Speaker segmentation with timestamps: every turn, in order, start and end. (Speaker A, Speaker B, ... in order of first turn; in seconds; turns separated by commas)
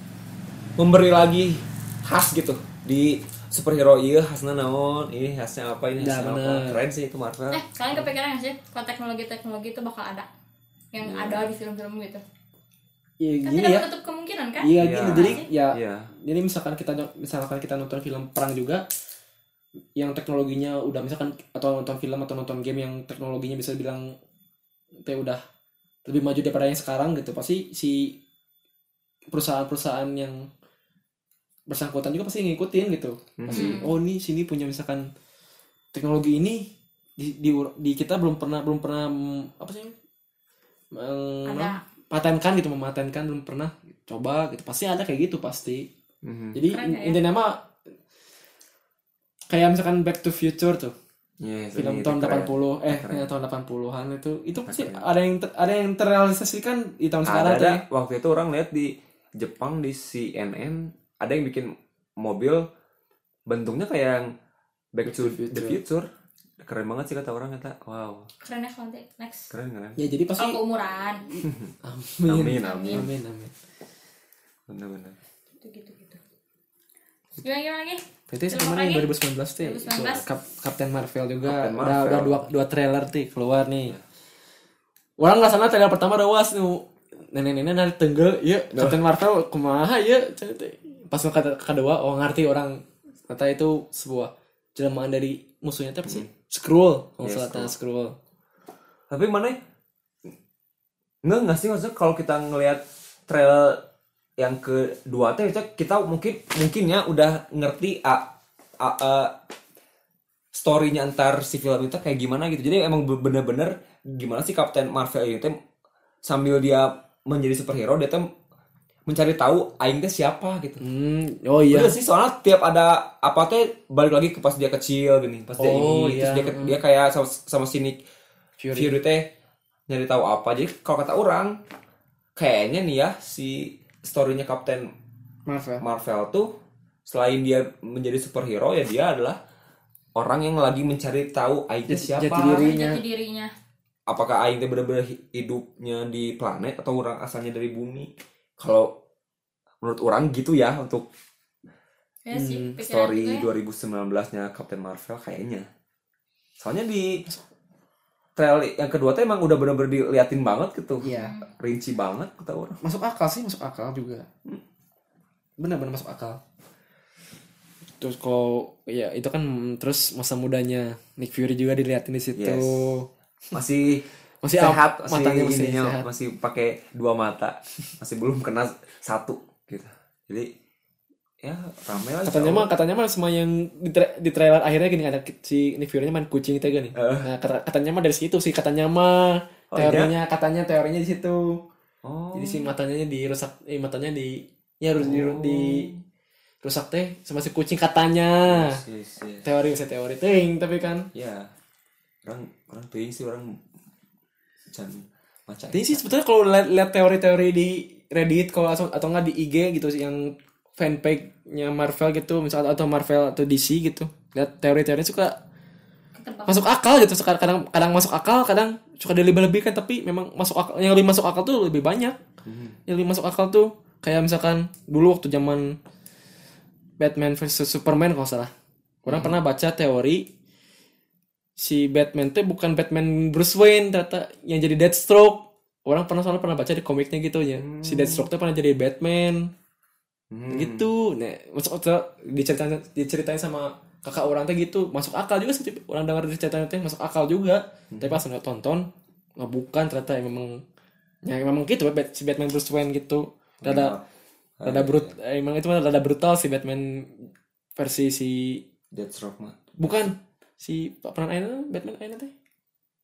Speaker A: 0.8-7.6, Speaker B: 6.0-6.8, Speaker C: 7.5-10.3, Speaker C: 10.9-12.2, Speaker A: 11.0-11.5, Speaker B: 13.2-13.9, Speaker C: 13.4-15.5, Speaker B: 14.6-18.8, Speaker A: 14.8-16.1, Speaker B: 19.9-24.1, Speaker B: 25.0-25.4, Speaker B: 26.0-28.2, Speaker B: 29.3-30.5, Speaker B: 31.7-35.1, Speaker A: 33.4-33.8, Speaker C: 33.5-33.9, Speaker B: 35.9-39.9, Speaker B: 40.9-45.9, Speaker C: 41.5-41.8, Speaker A: 46.2-46.6, Speaker B: 46.5-47.7, Speaker C: 46.7-47.2, Speaker B: 49.5-50.9, Speaker A: 51.4-53.3, Speaker B: 51.8-57.8, Speaker A: 54.6-55.0, Speaker A: 57.2-62.6, Speaker A: 63.5-64.3, Speaker A: 64.9-66.1, Speaker B: 65.0-65.8, Speaker A: 66.6-68.3, Speaker C: 68.4-69.5, Speaker A: 69.5-70.0, Speaker B: 70.0-70.6, Speaker C: 70.4-71.3, Speaker A: 71.4-71.7, Speaker B: 71.8-73.5, Speaker A: 72.2-73.1, Speaker C: 72.6-73.0, Speaker A: 74.7-75.2, Speaker C: 75.6-76.2, Speaker C: 77.4-80.2, Speaker B: 78.3-84.0, Speaker A: 81.4-82.4, Speaker B: 85.2-98.2, Speaker A: 88.7-89.0, Speaker A: 97.2-97.7, Speaker A: 99.1-99.6, Speaker A: 101.2-103.8, Speaker A: 104.4-109.3, Speaker A: 110.5-115.6, Speaker A: 116.2-118.3, Speaker A: 119.1-120.8, Speaker B: 120.8-121.9, Speaker A: 121.7-128.0, Speaker B: 125.6-126.8, Speaker B: 128.6-129.0, Speaker A: 128.7-129.3, Speaker A: 129.9-131.6, Speaker A: 132.3-134.9, Speaker B: 135.4-135.8, Speaker A: 135.8-136.5, Speaker A: 137.1-139.4, Speaker A: 140.2-142.7, Speaker B: 141.9-143.0, Speaker C: 142.3-143.5, Speaker A: 144.1-149.0, Speaker A: 149.8-151.1, Speaker C: 152.2-153.5, Speaker B: 152.3-152.8, Speaker A: 152.8-155.7, Speaker A: 156.6-157.2, Speaker A: 158.3-162.8, Speaker B: 161.0-161.4, Speaker C: 161.1-161.5, Speaker B: 162.8-164.3, Speaker B: 165.6-166.4, Speaker B: 168.0-173.1, Speaker A: 172.3-172.9, Speaker A: 173.5-180.5, Speaker B: 174.4-176.1, Speaker A: 181.4-182.7, Speaker B: 182.2-191.6, Speaker A: 186.9-187.3, Speaker A: 189.7-190.1, Speaker A: 192.0-192.7, Speaker B: 192.3-195.9, Speaker A: 195.0-196.0, Speaker B: 196.6-198.8, Speaker A: 198.4-199.4, Speaker B: 199.4-201.1, Speaker A: 201.1-201.5, Speaker A: 202.2-203.6, Speaker A: 204.7-206.1, Speaker B: 205.7-215.4, Speaker C: 216.1-216.6, Speaker B: 216.5-222.2, Speaker A: 222.4-222.8, Speaker B: 222.9-225.8, Speaker B: 227.0-228.5, Speaker B: 229.0-230.3, Speaker A: 229.1-229.4, Speaker B: 231.6-239.5, Speaker A: 237.6-238.3, Speaker A: 240.3-240.9, Speaker B: 240.5-250.6, Speaker A: 247.9-248.2, Speaker B: 251.2-253.9, Speaker A: 253.6-254.0, Speaker A: 254.6-255.1, Speaker B: 254.6-258.6, Speaker A: 258.9-260.1, Speaker B: 259.8-262.3